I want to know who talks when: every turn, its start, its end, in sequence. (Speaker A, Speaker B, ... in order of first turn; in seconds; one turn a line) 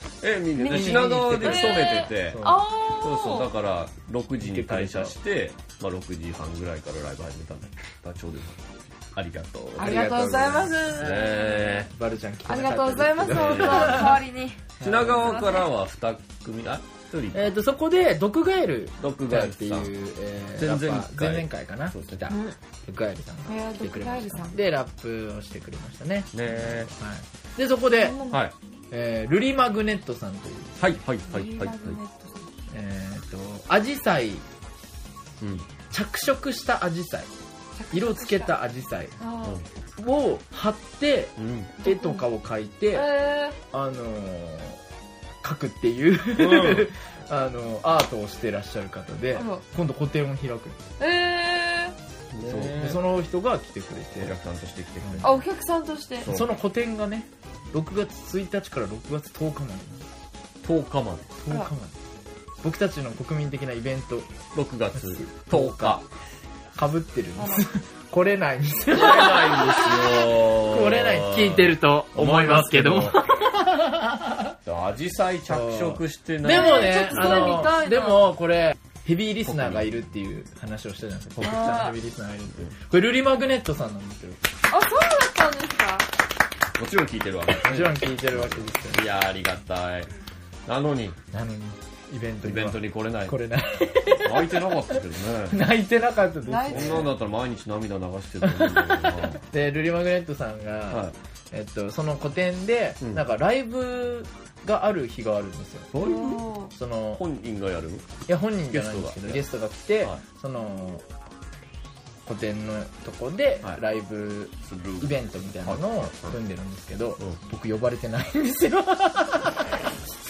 Speaker A: 0.2-11.9
Speaker B: 0.6-3.5
Speaker C: 0.7-2.7
Speaker C: 4.4-5.2
Speaker B: 9.8-11.8
Speaker C: 11.9-14.2
Speaker B: 12.5-14.6
Speaker A: 13.2-14.2
Speaker C: 14.8-15.3
Speaker A: 14.8-17.5
Speaker B: 15.2-15.6
Speaker C: 17.3-28.2
Speaker A: 19.0-19.9
Speaker A: 20.6-22.2
Speaker B: 22.3-22.5
Speaker B: 23.5-24.6
Speaker A: 26.3-26.9
Speaker B: 28.0-28.4
Speaker C: 28.9-30.8
Speaker A: 30.8-32.0
Speaker B: 31.3-32.5
Speaker C: 32.7-34.4
Speaker A: 35.4-35.7
Speaker C: 35.9-37.3
Speaker B: 37.8-38.5
Speaker C: 37.9-39.1
Speaker B: 39.2-39.6
Speaker C: 40.0-43.1
Speaker A: 41.4-41.7
Speaker B: 41.8-42.2
Speaker B: 42.9-43.6
Speaker C: 43.7-44.8
Speaker C: 45.4-50.8
Speaker A: 46.3-46.9
Speaker B: 49.3-49.6
Speaker B: 51.0-51.9
Speaker A: 52.3-53.0
Speaker C: 52.4-54.4
Speaker A: 54.2-55.5
Speaker C: 55.0-55.4
Speaker B: 55.2-56.3
Speaker A: 56.2-56.5
Speaker C: 56.3-60.1
Speaker A: 60.6-61.3
Speaker C: 61.4-61.9
Speaker C: 62.6-64.3
Speaker A: 64.5-66.0
Speaker C: 65.0-66.0
Speaker C: 66.8-74.5
Speaker B: 67.3-67.7
Speaker A: 68.9-73.2
Speaker A: 74.6-77.7
Speaker C: 75.5-84.4
Speaker B: 76.5-78.3
Speaker A: 79.4-79.9
Speaker B: 81.4-82.0
Speaker B: 84.7-86.1
Speaker A: 86.8-90.1
Speaker C: 87.7-89.0
Speaker A: 90.7-91.2
Speaker C: 91.3-94.7
Speaker A: 92.4-93.4
Speaker A: 94.2-95.6
Speaker C: 95.5-97.1
Speaker B: 96.5-97.1
Speaker A: 96.7-99.4
Speaker C: 98.4-105.9
Speaker A: 100.9-101.1
Speaker A: 105.9-106.5
Speaker B: 106.0-106.7
Speaker C: 106.7-107.2
Speaker A: 107.1-108.1
Speaker C: 108.3-111.0
Speaker A: 108.7-109.4
Speaker C: 112.2-119.7
Speaker A: 114.6-116.4